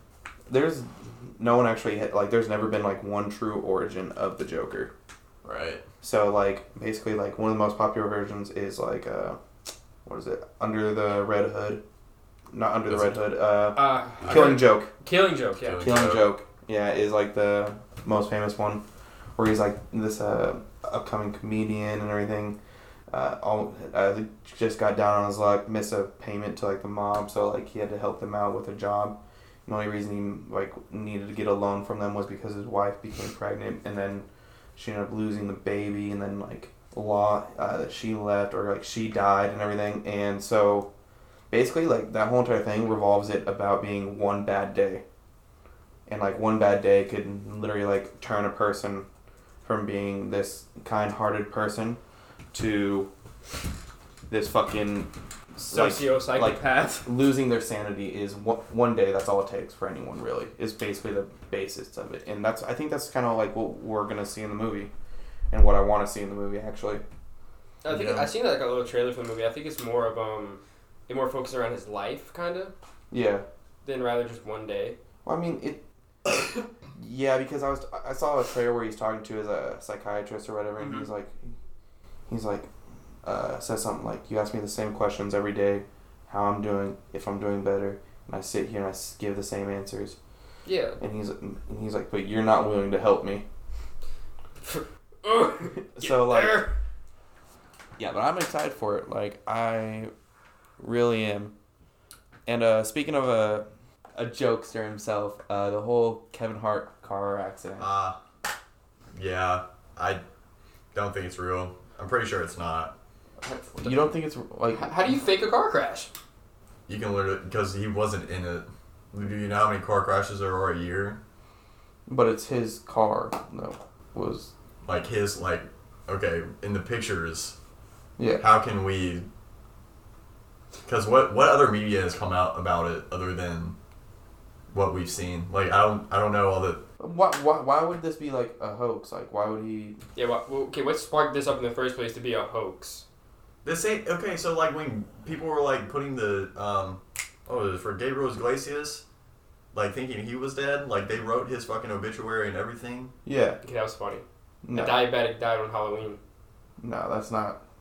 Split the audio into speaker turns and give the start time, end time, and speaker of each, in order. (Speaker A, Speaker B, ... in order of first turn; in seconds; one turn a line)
Speaker A: 0.5-4.9
Speaker B: 5.4-5.8
Speaker A: 6.0-9.4
Speaker A: 10.0-11.8
Speaker A: 12.5-14.9
Speaker B: 12.9-13.2
Speaker C: 13.7-15.8
Speaker B: 14.2-14.6
Speaker B: 15.6-16.3
Speaker A: 15.8-18.8
Speaker A: 19.4-22.6
Speaker A: 23.1-40.9
Speaker A: 41.5-45.0
Speaker A: 46.1-49.0
Speaker A: 49.6-52.0
Speaker A: 52.5-53.1
Speaker A: 54.3-64.9
Speaker C: 55.7-57.1
Speaker A: 65.5-67.0
Speaker C: 67.8-72.7
Speaker B: 67.9-68.2
Speaker A: 73.1-73.4
Speaker C: 73.8-75.0
Speaker A: 75.2-76.4
Speaker A: 77.0-81.5
Speaker A: 82.3-82.7
Speaker A: 83.2-90.2
Speaker C: 90.6-91.0
Speaker A: 91.0-93.4
Speaker C: 94.6-96.7
Speaker A: 95.9-96.7
Speaker A: 98.0-100.1
Speaker A: 100.8-101.5
Speaker A: 102.5-107.9
Speaker B: 107.8-108.2
Speaker B: 109.1-110.2
Speaker B: 110.9-112.9
Speaker A: 113.5-114.9
Speaker C: 114.7-116.1
Speaker B: 116.9-121.2
Speaker A: 122.1-124.5
Speaker B: 124.8-127.5
Speaker A: 128.2-128.4
Speaker B: 128.4-129.2
Speaker B: 130.8-133.8
Speaker B: 134.7-136.8
Speaker A: 137.0-140.0
Speaker C: 140.2-143.0
Speaker B: 143.6-149.0
Speaker B: 149.7-153.1
Speaker A: 153.2-153.6
Speaker C: 153.6-156.2
Speaker A: 154.6-155.0
Speaker A: 156.8-157.6